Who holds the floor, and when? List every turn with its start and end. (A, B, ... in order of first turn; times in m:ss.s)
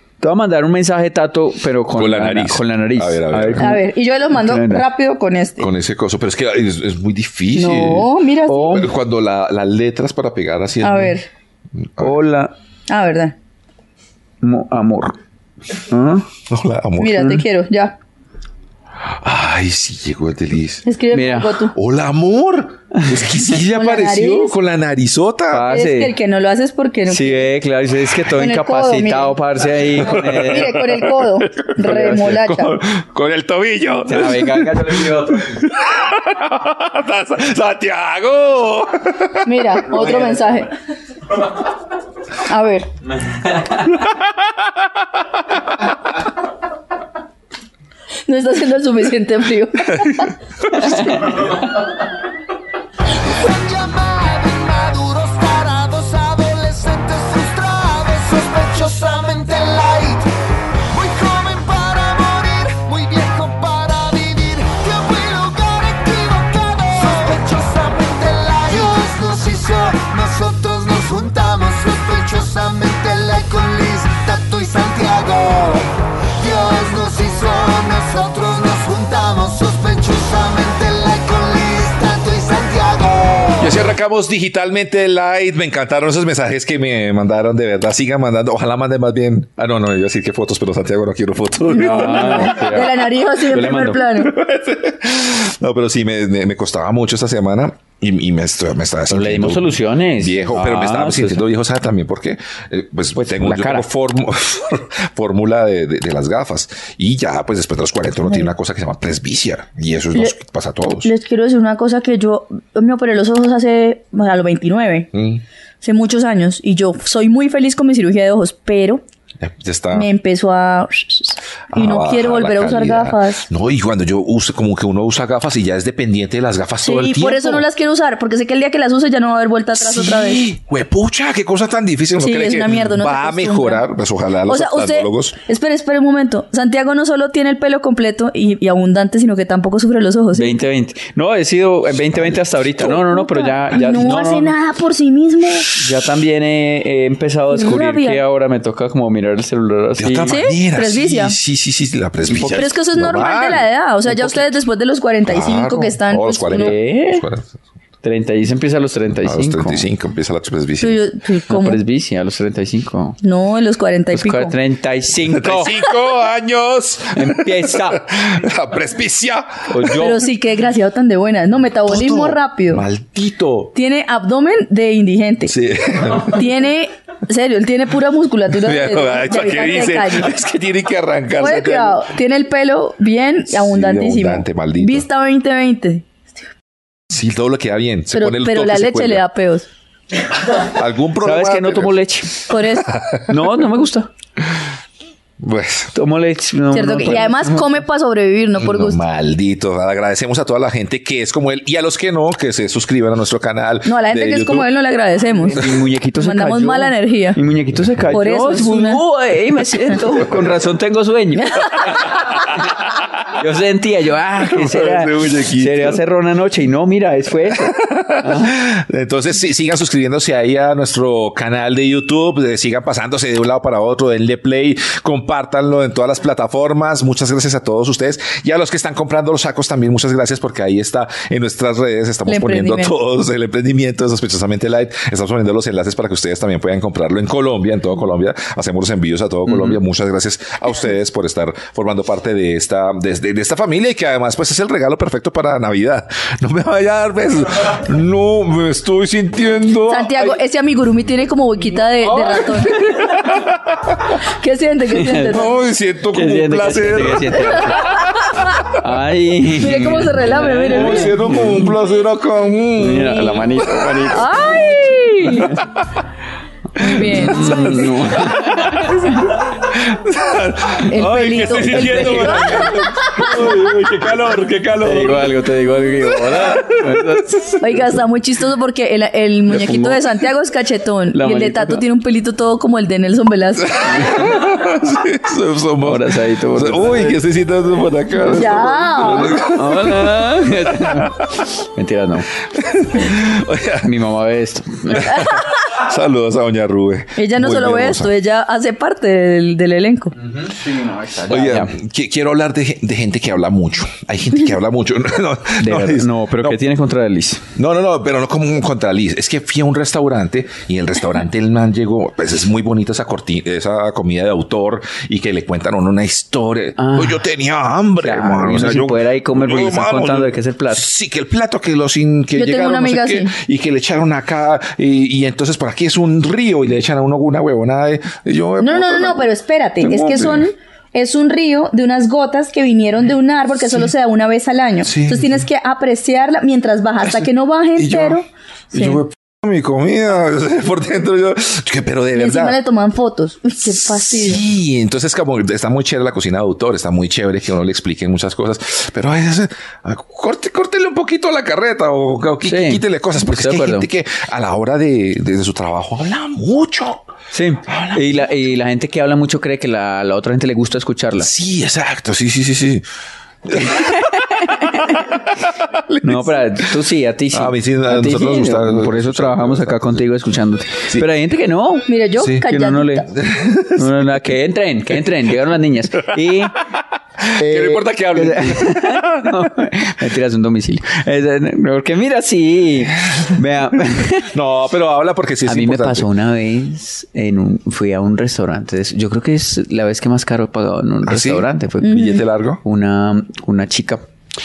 0:00.2-0:04.8 A
0:01.9-0:03.8 B
0:03.6-0:05.7 C
0:05.6-0:08.1 B
0:07.5-0:08.8 C
0:08.5-0:08.9 A
0:08.7-0:11.2 B
0:10.8-0:11.3 C
0:11.8-0:12.2 B
0:12.0-0:12.5 A
0:12.9-0:13.3 C
0:14.4-0:15.2 A
0:15.9-0:16.3 A
0:16.5-0:17.4 B
0:17.0-0:18.0 C
0:19.0-0:20.8 B
0:20.8-0:21.8 C
0:21.1-0:21.6 A
0:21.7-0:25.7 B
0:22.9-0:23.2 A
0:23.7-0:24.6 C
0:25.5-0:26.2 A
0:25.7-0:27.5 C
0:27.1-0:30.8 A
0:28.3-0:29.4 C
0:30.1-0:39.8 B
0:30.1-0:32.8 C
0:31.8-0:32.5 A
0:34.1-0:35.6 A
0:39.4-0:40.7 C
0:42.4-0:42.9 C
0:44.0-0:44.6 B
0:48.3-0:51.0 C
0:50.8-0:51.4 A
0:53.2-1:00.3 D
1:00.9-1:23.8 D
1:23.6-1:33.0 B
1:31.7-1:34.4 C
1:31.7-1:34.0 A
1:34.1-1:51.1 B
1:39.1-1:41.4 A
1:43.2-1:43.9 A
1:51.0-1:55.1 C
1:55.1-1:55.4 B
1:55.8-1:59.0 C
1:59.4-2:00.1 B
1:59.9-2:03.5 C
2:01.7-2:07.6 B
2:06.8-2:10.4 C
2:09.7-2:15.4 B
2:12.2-2:13.8 C
2:14.4-2:20.5 C
2:20.3-2:24.5 A
2:22.8-2:25.8 C
2:25.7-2:30.4 A
2:27.5-2:28.2 C
2:30.0-2:34.4 B
2:30.3-2:31.4 C
2:32.5-2:36.7 C
2:35.2-2:37.5 B
2:36.5-2:37.2 A
2:38.0-2:39.9 A
2:39.2-2:41.0 B
2:40.8-2:41.8 C
2:41.5-2:43.2 A
2:43.2-2:44.5 C
2:44.1-2:45.9 A
2:45.2-2:50.1 B
2:47.1-2:48.2 A
2:49.7-2:50.2 A
2:49.9-2:52.8 C
2:51.9-2:53.7 B
2:53.7-2:55.5 C
2:55.4-2:56.4 B
2:56.2-3:00.3 C
2:58.6-3:02.1 B
3:01.4-3:06.4 C
3:03.5-3:05.1 B
3:07.1-3:09.2 B
3:08.1-3:09.6 C
3:10.6-3:12.0 B
3:11.2-3:12.5 A
3:12.5-3:13.0 C
3:13.0-3:13.4 B
3:13.2-3:14.1 A
3:15.4-3:15.9 B
3:15.9-3:17.8 A
3:16.7-3:19.0 C
3:18.6-3:24.7 B
3:23.8-3:25.6 C
3:25.4-3:32.6 A
3:26.2-3:27.4 C
3:28.1-3:29.0 C
3:33.3-3:38.6 A
3:34.4-3:36.0 B
3:37.5-4:10.4 B
3:52.3-3:52.9 C
3:59.5-3:59.8 A
4:09.9-4:13.1 C
4:12.0-4:14.0 B
4:14.4-4:15.5 C
4:14.9-4:15.4 A
4:15.3-4:18.2 B
4:16.1-4:17.9 A
4:17.7-4:18.4 C
4:18.8-4:21.7 A
4:19.6-4:21.2 C
4:20.7-4:24.2 B
4:22.8-4:24.3 A
4:24.1-4:25.5 C
4:25.3-4:25.6 B
4:26.8-4:27.9 C
4:26.9-4:37.4 B
4:26.9-4:29.3 A
4:30.9-4:33.3 C
4:30.9-4:34.0 A
4:34.8-4:37.8 A
4:37.6-4:44.0 C
4:39.5-4:40.2 A
4:41.1-4:41.8 A
4:43.7-4:51.4 B
4:44.0-4:44.3 A
4:45.8-4:47.2 A
4:48.3-4:49.4 C
4:49.4-4:52.3 A
4:52.5-4:53.9 B
4:53.8-4:55.4 A
4:55.0-4:58.1 B
4:57.2-5:00.1 C
5:00.2-5:01.8 A
5:01.3-5:06.6 B
5:05.6-5:07.5 A
5:07.5-5:29.3 B
5:16.8-5:17.2 A
5:18.0-5:20.8 A
5:22.4-5:23.3 C
5:28.6-5:39.0 C
5:29.8-5:30.5 B
5:34.8-5:35.4 B
5:37.8-5:38.2 B
5:38.7-5:42.6 B
5:42.1-5:44.4 C
5:43.8-5:57.0 B
5:52.4-5:53.9 A
5:57.3-6:01.3 A
5:57.7-5:58.3 B
6:01.2-6:02.8 B
6:03.4-6:06.7 B
6:03.7-6:05.0 A
6:06.0-6:11.9 A
6:07.3-6:10.0 B
6:11.9-6:13.1 C
6:12.2-6:12.4 B
6:12.4-6:13.1 A
6:13.1-6:14.0 B
6:13.6-6:16.6 A
6:17.3-6:19.5 B
6:17.3-6:24.3 A
6:24.2-6:26.1 B
6:25.4-6:32.1 A
6:31.0-6:32.6 B
6:31.8-6:32.2 C
6:32.6-6:34.0 A